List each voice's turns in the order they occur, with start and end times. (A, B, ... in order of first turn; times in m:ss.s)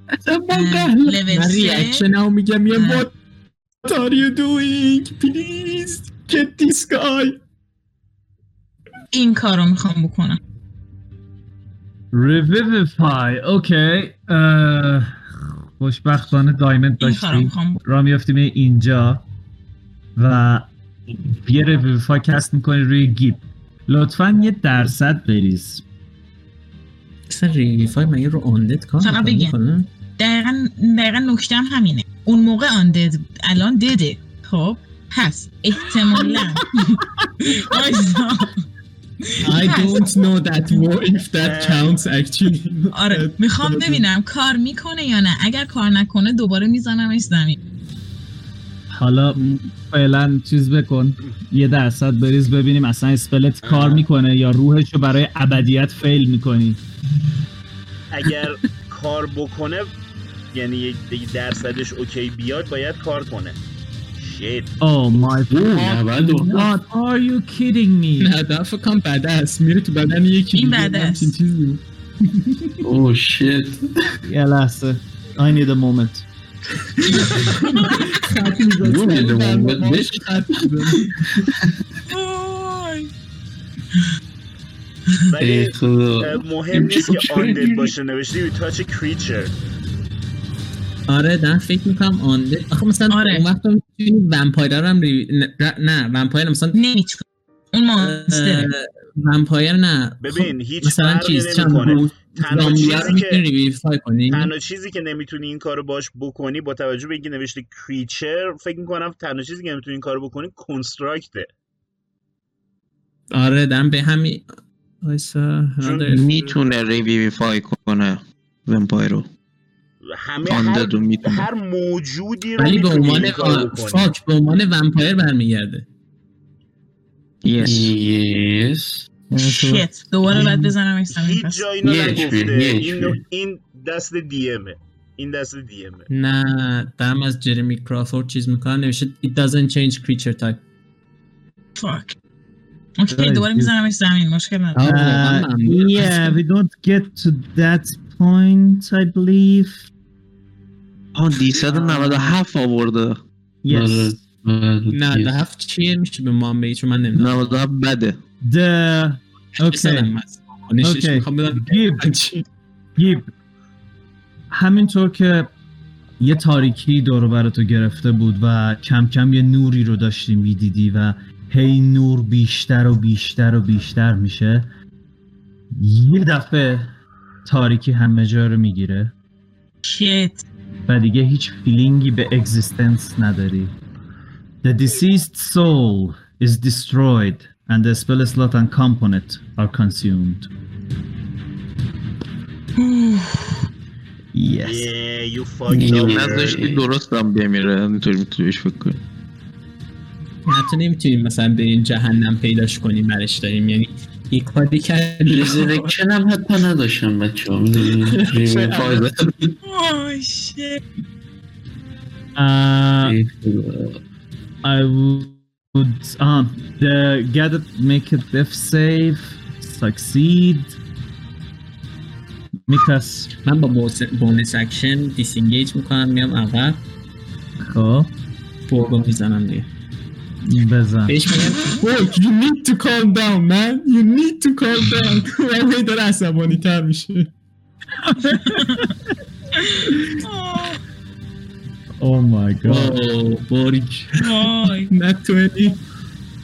0:00.3-0:01.2 A
0:00.5-0:02.0 B
0:00.8-0:02.4 C
0:02.4-0:03.1 A
0:02.7-0:03.1 B
0:03.8-0:07.4 A
0:09.1-0:10.4 B
0:12.1-0:19.2 D
0:17.0-0:17.8 B
0:20.2-0:25.8 D
0:27.3-0:29.9 C
0:29.0-0:29.5 B
0:30.2-0:38.6 B
0:39.2-0:40.1 B
0:39.4-0:42.8 C
0:41.4-0:42.0 E
0:42.9-0:47.6 B
0:43.0-0:44.0 A
0:48.9-0:56.8 D
0:49.4-0:49.6 C
0:53.6-0:54.0 E
0:58.1-0:59.9 E
1:00.5-1:03.6 E
1:04.1-1:04.7 E
1:04.8-1:08.3 D
1:05.5-1:06.7 F
1:08.2-1:11.0 C
1:10.5-1:11.8 A
1:10.5-1:11.3 B
1:12.8-1:13.8 F
1:14.3-1:16.2 D
1:17.0-1:21.1 A
1:17.4-1:18.5 C
1:17.6-1:18.0 B
1:18.8-1:21.6 F
1:22.1-1:23.1 B
1:25.3-1:29.5 E
1:25.4-1:27.9 F
1:31.1-1:36.8 C
1:33.1-1:33.4 B
1:36.7-1:38.7 B
1:38.0-1:44.5 C
1:40.2-1:43.4 E
1:44.3-1:51.5 E
1:53.3-1:54.4 C
1:55.0-1:56.2 C
1:55.8-1:56.6 E
1:56.1-1:59.3 G
2:00.0-2:04.1 E
2:00.4-2:01.5 G
2:02.6-2:05.8 C
2:07.4-2:07.9 G
2:07.6-2:09.1 F
2:09.4-2:09.7 G
2:09.4-2:11.7 B
2:10.3-2:10.6 F
2:11.1-2:16.1 E
2:11.8-2:13.2 F
2:16.1-2:20.6 C
2:21.8-2:22.1 B
2:23.0-2:25.0 B
2:23.1-2:23.7 D
2:24.7-2:26.4 C
2:24.8-2:29.8 D
2:31.1-2:33.2 G
2:31.7-2:32.3 C
2:33.6-2:34.1 D
2:33.7-2:35.4 F
2:34.9-2:37.6 C
2:37.1-2:38.2 G
2:38.4-2:40.1 D
2:39.6-2:42.4 C
2:40.8-2:42.0 D
2:43.0-2:43.3 D
2:44.5-2:45.5 D
2:46.2-2:54.7 D
2:55.8-2:56.9 D
2:57.4-2:59.1 D
2:59.8-3:00.4 B
3:00.9-3:03.7 D
3:04.6-3:10.5 D
3:12.8-3:13.6 B
3:14.3-3:14.9 D
3:14.6-3:16.7 E
3:15.7-3:16.8 F
3:16.0-3:19.0 G
3:20.4-3:25.9 C
3:25.2-3:29.5 F
3:28.0-3:29.0 A
3:29.6-3:30.8 B
3:32.4-3:33.2 D
3:33.0-3:34.0 F
3:34.6-3:40.8 D
3:42.7-3:43.3 D
3:43.4-3:46.8 C
3:47.6-3:48.1 D
3:48.7-3:49.7 C
3:50.4-3:51.2 D
3:51.1-3:51.8 C
3:51.7-3:57.3 A
3:58.0-3:58.7 D
3:58.3-3:58.9 B
3:59.5-4:00.8 B
4:02.0-4:03.0 D
4:02.6-4:04.1 C
4:04.2-4:04.9 B
4:04.9-4:05.8 A